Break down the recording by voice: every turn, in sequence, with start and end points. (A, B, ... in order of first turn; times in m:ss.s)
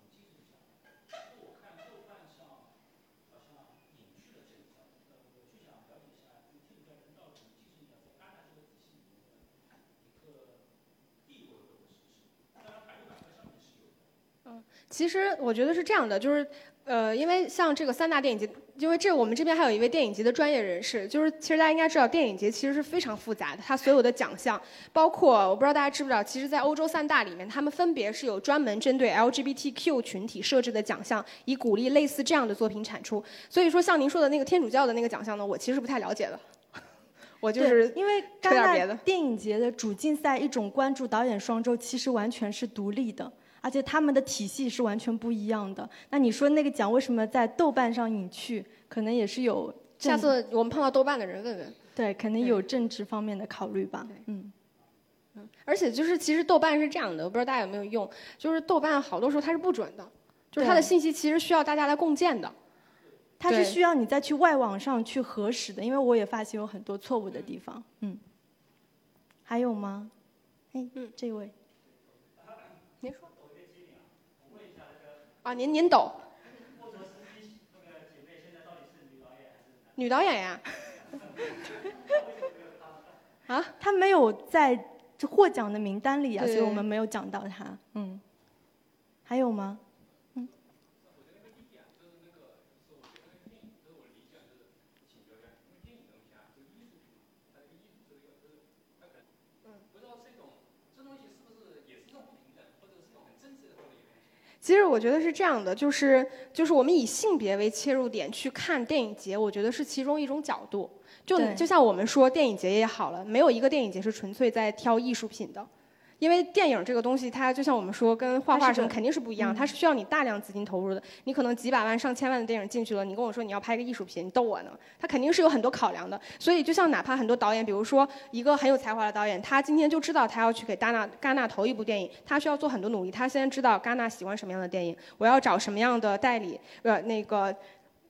0:14.4-0:36.4 A
0:37.4-0:39.0 A
0:37.6-0:50.3 B
0:50.0-0:51.8 A
0:52.0-0:54.5 B
0:55.4-1:02.5 A
1:00.6-1:00.9 B
1:03.4-1:08.2 B
1:03.5-1:03.8 A
1:09.5-1:10.1 B
1:10.7-1:11.5 B
1:13.0-1:13.3 A
1:15.4-1:16.2 A
1:20.0-1:20.7 A
1:23.5-1:23.7 A
1:23.8-1:28.2 B
1:26.4-1:26.8 A
1:29.3-1:29.8 B
1:44.6-1:55.7 A
1:51.3-1:51.6 B
1:56.2-2:17.6 A
1:58.5-1:59.7 B